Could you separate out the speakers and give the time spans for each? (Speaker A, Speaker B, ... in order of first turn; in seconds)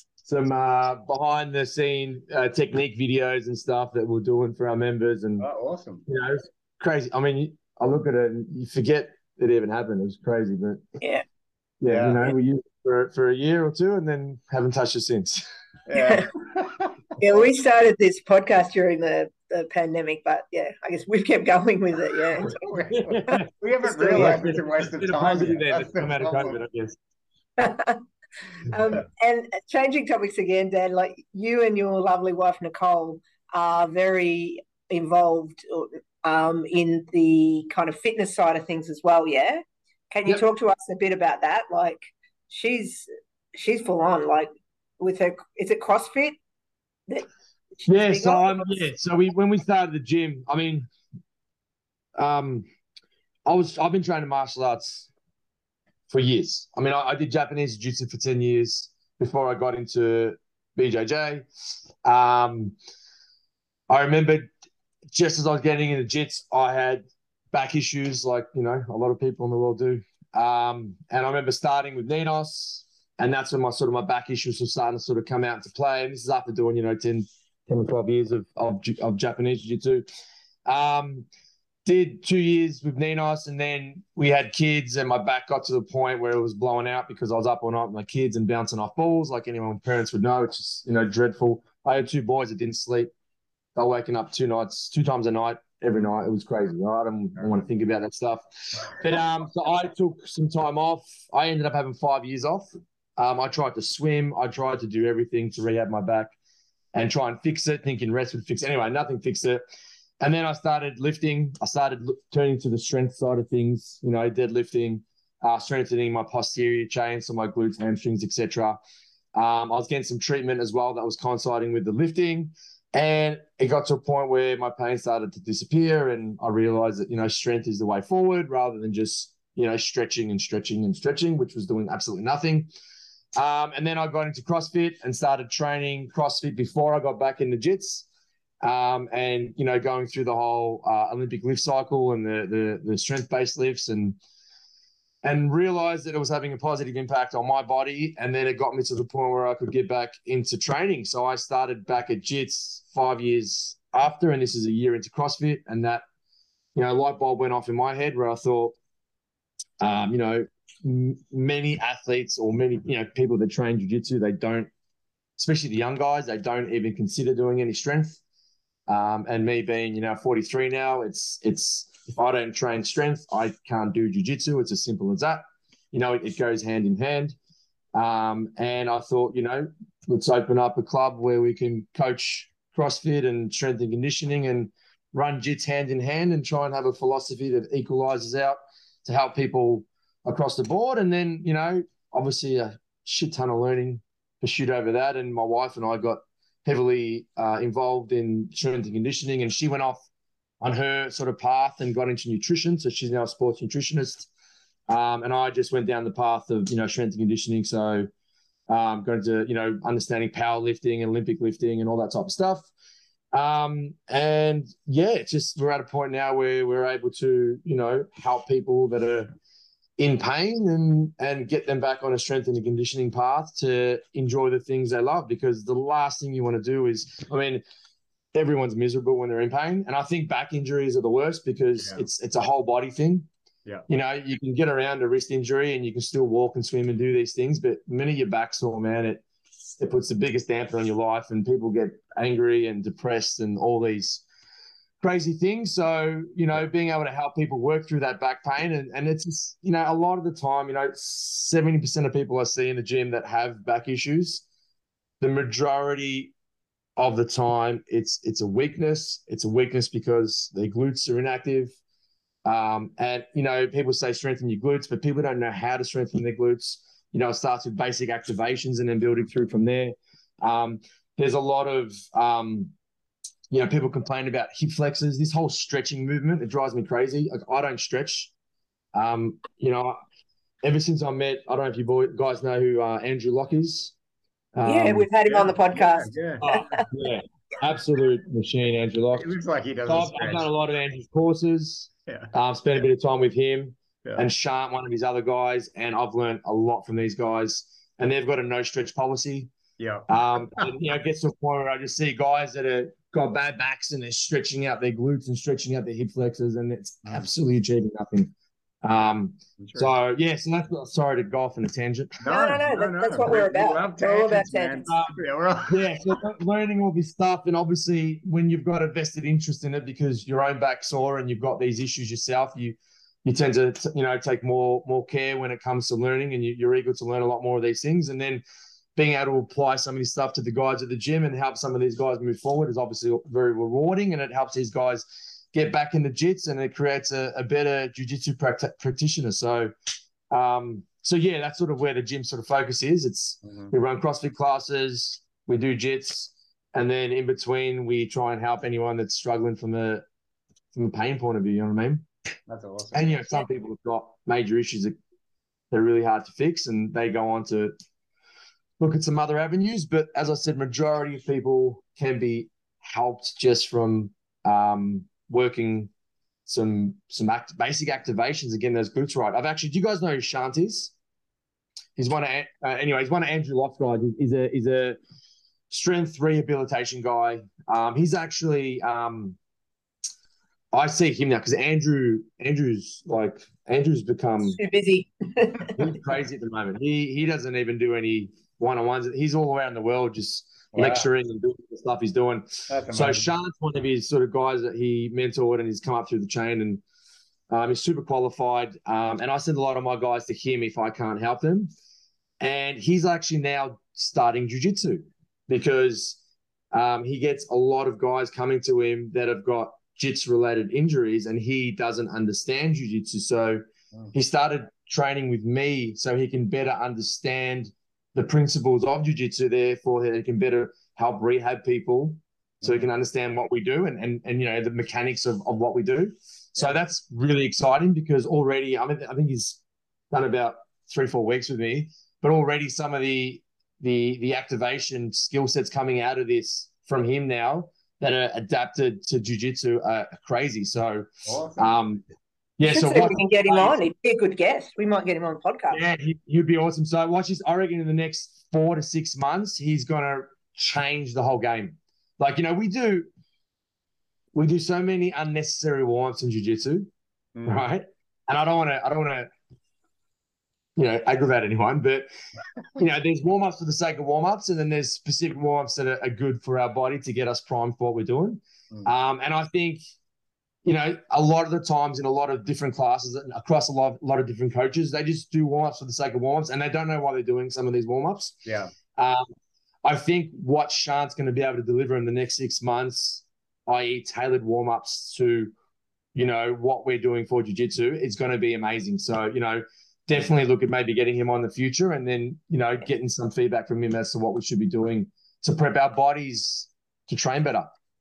Speaker A: 0.2-5.5, 6.1-10.8, 11.8-15.4, 22.9-23.5, 24.1-27.0, 47.9-50.9, 52.2-52.7, 53.5-55.1, 56.1-61.5, 62.0-62.8, 63.9-64.5, 65.1-80.0, 80.7-81.3, 81.8-93.1, 93.8-106.3, 106.9-109.6, 110.2-118.8, 119.3-132.7, 133.4-138.1, 138.6-144.2, 145.2-156.0, 156.8-158.8, 159.8-164.7, 165.4-168.2, 168.9-177.4, 177.9-200.1, 200.6-204.3, 204.9-208.1, 208.7-212.7, 213.3-219.3, 220.0-227.6, 228.3-233.3, 233.9-239.2, 239.8-244.2, 245.0-254.4, 255.2-256.3, 257.0-261.7, 262.4-272.7, 273.5-278.3, 278.9-280.0, 280.6-283.9, 284.5-285.1, 286.4-289.3, 289.9-299.5, 300.1-308.3, 308.8-312.2, 314.9-328.4, 329.0-339.7, 340.3-350.1, 350.7-352.1, 352.9-354.9, 355.7-357.7, 358.8-365.9, 366.5-370.9, 372.0-375.0, 375.7-379.4, 380.7-384.6, 385.8-396.8, 397.5-401.7, 402.4-406.2, 406.7-429.6, 430.1-442.0, 442.6-443.8, 445.7-453.1, 454.3-456.9, 457.5-459.3, 460.8-462.1, 462.8-469.8, 470.6-478.4, 478.9-479.3, 479.8-485.5, 486.1-497.7
Speaker B: 5.4-6.0, 11.9-12.3, 15.9-17.3, 22.5-26.6, 231.8-232.1, 285.2-286.8, 289.2-290.5, 299.8-300.7, 309.6-309.9, 312.2-316.0, 343.4-343.7, 352.5-353.2, 390.7-391.1, 392.7-393.3, 422.6-422.9, 441.3-441.7, 457.4-457.7, 478.5-478.7
Speaker C: 15.9-16.3, 17.2-22.6, 23.3-24.5, 27.6-28.0, 28.6-46.4, 47.1-48.8, 284.6-286.9, 312.2-314.9, 384.4-385.8, 442.6-445.8